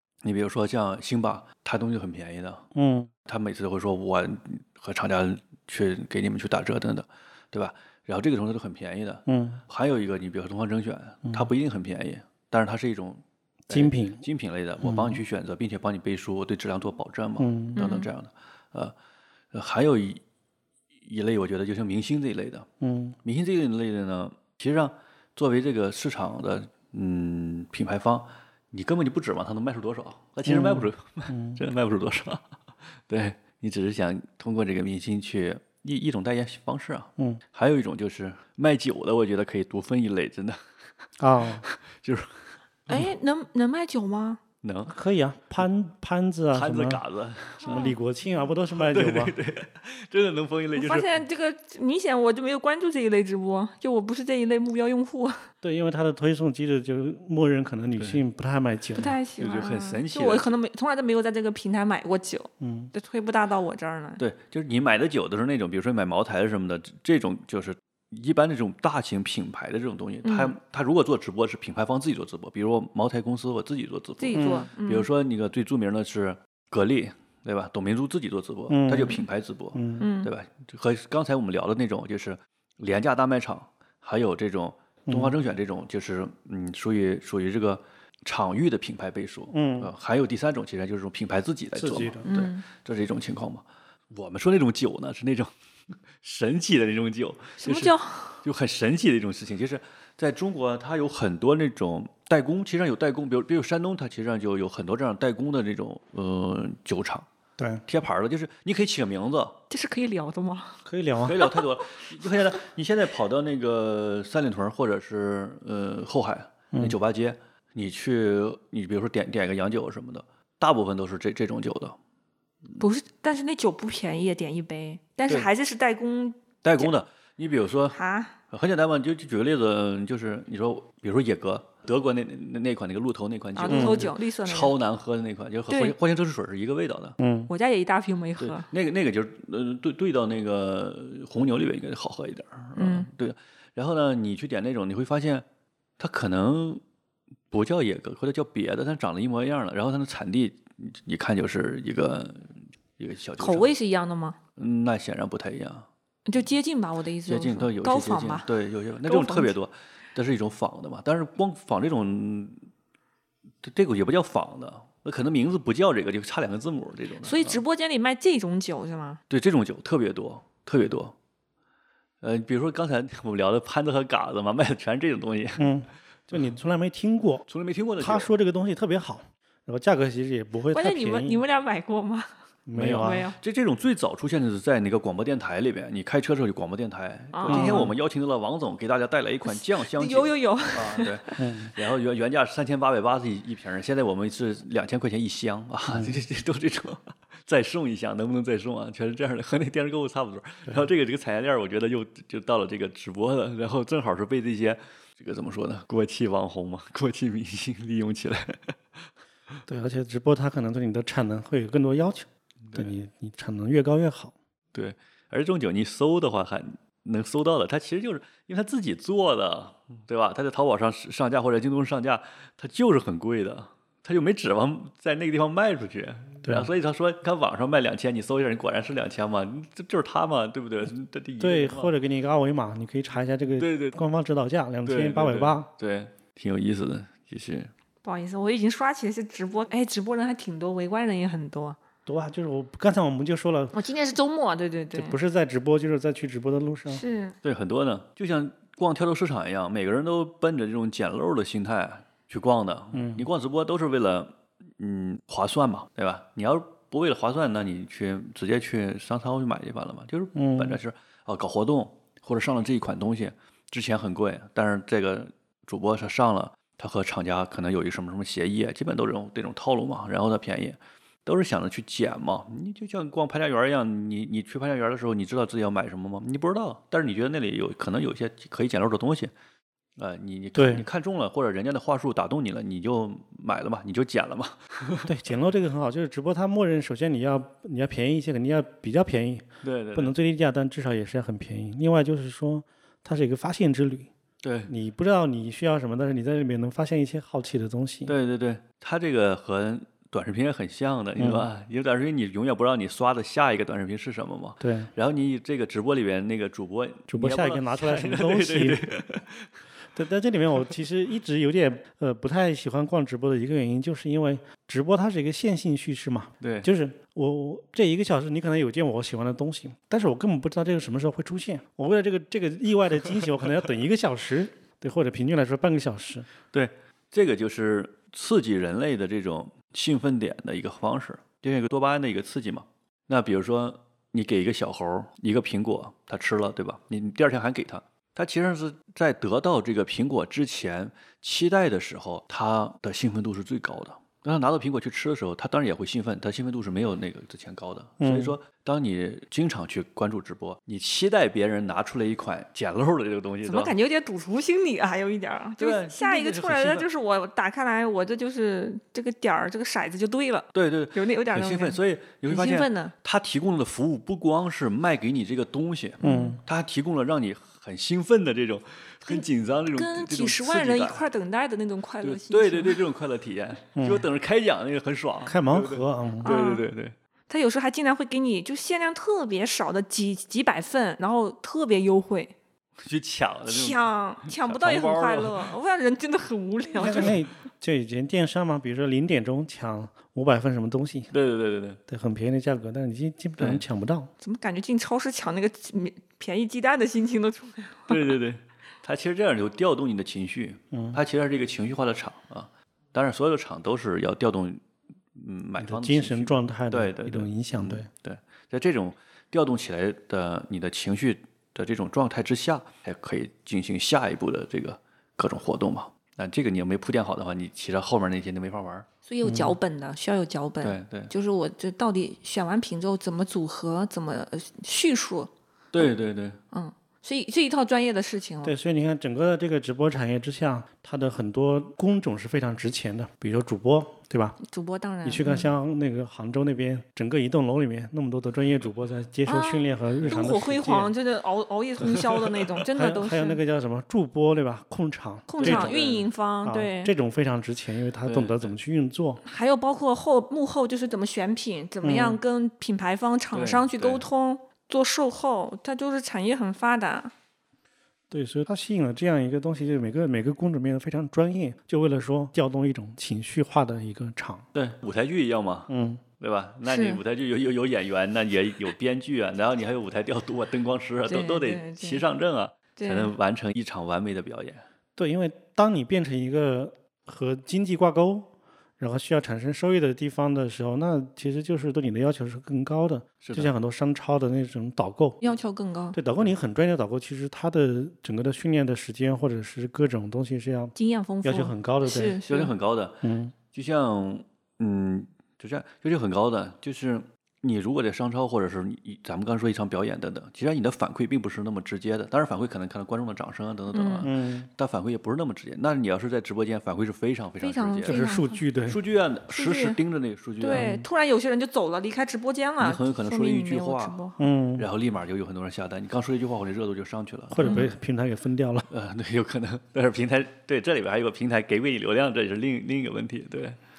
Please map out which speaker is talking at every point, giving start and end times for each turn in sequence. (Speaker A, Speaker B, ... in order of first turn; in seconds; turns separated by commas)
Speaker A: 0.2-2.6, Speaker B: 2.7-3.1, Speaker A: 3.3-18.9, Speaker B: 9.3-9.6, Speaker B: 13.7-14.2, Speaker B: 14.8-15.2, Speaker B: 17.4-17.9, Speaker C: 17.8-18.1, Speaker A: 19.5-20.2, Speaker A: 21.0-22.7, Speaker B: 22.8-23.2, Speaker A: 23.2-32.4, Speaker B: 30.5-31.6, Speaker A: 33.1-40.6, Speaker B: 41.2-41.6, Speaker A: 41.6-42.5, Speaker C: 42.9-44.4, Speaker A: 44.6-45.0, Speaker B: 44.9-47.0, Speaker A: 46.5-47.8, Speaker B: 47.6-49.4, Speaker C: 47.6-48.0, Speaker A: 48.7-51.1, Speaker C: 50.7-55.5, Speaker B: 55.6-59.2, Speaker A: 58.0-58.2, Speaker C: 59.0-64.2, Speaker A: 59.4-60.5, Speaker B: 62.6-62.9, Speaker A: 64.2-95.5, Speaker C: 70.2-70.5, Speaker C: 74.2-75.1, Speaker B: 74.3-74.7, Speaker B: 78.7-80.1, Speaker C: 80.0-80.3, Speaker B: 85.1-85.4, Speaker B: 89.5-89.9, Speaker B: 91.8-92.3, Speaker C: 92.3-92.6, Speaker A: 96.2-107.3, Speaker C: 97.6-98.4, Speaker B: 107.6-107.8, Speaker A: 107.9-109.6, Speaker C: 109.7-110.8, Speaker B: 110.8-111.4, Speaker A: 111.2-122.0, Speaker C: 122.8-126.9, Speaker A: 126.6-128.0, Speaker C: 127.9-128.3, Speaker A: 128.5-137.2, Speaker C: 133.6-134.7, Speaker B: 133.7-134.1, Speaker C: 135.7-135.9, Speaker B: 137.2-137.5, Speaker C: 137.5-138.7, Speaker A: 138.4-145.4, Speaker C: 142.8-143.1, Speaker A: 146.0-146.8, Speaker A: 147.5-153.7, Speaker C: 153.4-154.4, Speaker A: 154.6-155.9, Speaker C: 156.3-158.5, Speaker A: 157.3-162.6, Speaker C: 159.1-159.5, Speaker A: 163.6-167.6, Speaker C: 167.2-169.2, Speaker A: 169.3-171.2, Speaker A: 172.2-175.7, Speaker B: 175.6-177.5, Speaker A: 177.5-178.3, Speaker B: 178.0-181.4, Speaker C: 180.7-182.3, Speaker B: 182.7-183.3, Speaker A: 182.7-209.0, Speaker C: 182.8-183.4, Speaker C: 187.3-187.9, Speaker B: 187.5-187.9, Speaker C: 189.4-191.5, Speaker B: 191.4-191.7, Speaker B: 195.9-196.2, Speaker B: 209.7-214.3, Speaker A: 212.7-212.9, Speaker A: 214.7-231.9, Speaker B: 226.4-226.7, Speaker B: 231.4-235.7, Speaker A: 233.6-234.0, Speaker A: 234.8-237.7, Speaker C: 238.0-241.8, Speaker B: 242.1-243.8, Speaker C: 243.7-245.2, Speaker B: 244.9-247.0, Speaker C: 246.9-247.4, Speaker A: 247.4-279.3, Speaker B: 252.9-253.3, Speaker B: 260.4-260.8, Speaker A: 280.0-285.1, Speaker B: 280.6-280.9, Speaker B: 285.1-294.1, Speaker A: 289.6-290.1, Speaker A: 294.4-294.7, Speaker B: 294.7-298.1, Speaker A: 298.1-309.5, Speaker B: 301.2-301.5, Speaker B: 304.6-304.9, Speaker B: 307.1-308.8, Speaker B: 309.9-326.3, Speaker A: 316.4-316.7, Speaker A: 326.5-353.7, Speaker B: 348.0-348.4, Speaker C: 353.4-362.9, Speaker A: 355.6-356.9, Speaker A: 360.5-371.0, Speaker C: 366.0-366.4, Speaker B: 366.0-366.4, Speaker C: 369.8-372.8, Speaker A: 372.0-376.9, Speaker B: 373.8-374.1, Speaker B: 375.2-376.3, Speaker C: 376.2-376.6, Speaker C: 377.3-382.3, Speaker A: 382.8-385.5, Speaker C: 383.5-387.2, Speaker B: 386.8-391.1, Speaker A: 391.1-391.8, Speaker B: 391.9-394.1, Speaker A: 393.4-393.6, Speaker C: 394.2-398.1, Speaker A: 397.9-404.6, Speaker B: 400.7-401.0, Speaker A: 405.1-418.9, Speaker B: 405.6-407.9, Speaker C: 419.1-425.9, Speaker B: 419.2-419.6, Speaker A: 420.6-421.1, Speaker A: 425.7-426.4, Speaker C: 426.5-428.5, Speaker B: 428.4-434.4, Speaker C: 434.4-435.5, Speaker B: 435.0-440.9, Speaker C: 439.3-443.4, Speaker B: 442.7-445.8, Speaker C: 445.3-446.9, Speaker A: 445.4-446.1, Speaker B: 446.4-449.2, Speaker A: 448.1-448.5, Speaker C: 449.2-457.1, Speaker B: 451.8-452.2, Speaker A: 453.3-454.0, Speaker B: 458.1-464.5, Speaker A: 464.5-474.6, Speaker B: 465.7-466.0, Speaker C: 466.7-467.0, Speaker C: 471.1-472.0, Speaker C: 472.8-473.1, Speaker B: 475.0-485.2, Speaker A: 483.2-483.5, Speaker C: 485.2-486.0, Speaker B: 485.9-492.2, Speaker C: 490.8-492.5, Speaker A: 492.3-508.1, Speaker B: 493.0-493.3, Speaker C: 503.7-504.1, Speaker B: 504.0-504.5, Speaker C: 507.4-508.4, Speaker B: 507.9-508.8, Speaker A: 508.7-510.7, Speaker C: 509.3-509.8, Speaker C: 510.4-514.2, Speaker B: 510.5-510.9, Speaker A: 512.6-514.0, Speaker B: 514.2-514.7, Speaker A: 514.6-517.6, Speaker B: 517.3-518.7, Speaker C: 517.4-517.7, Speaker A: 518.7-523.6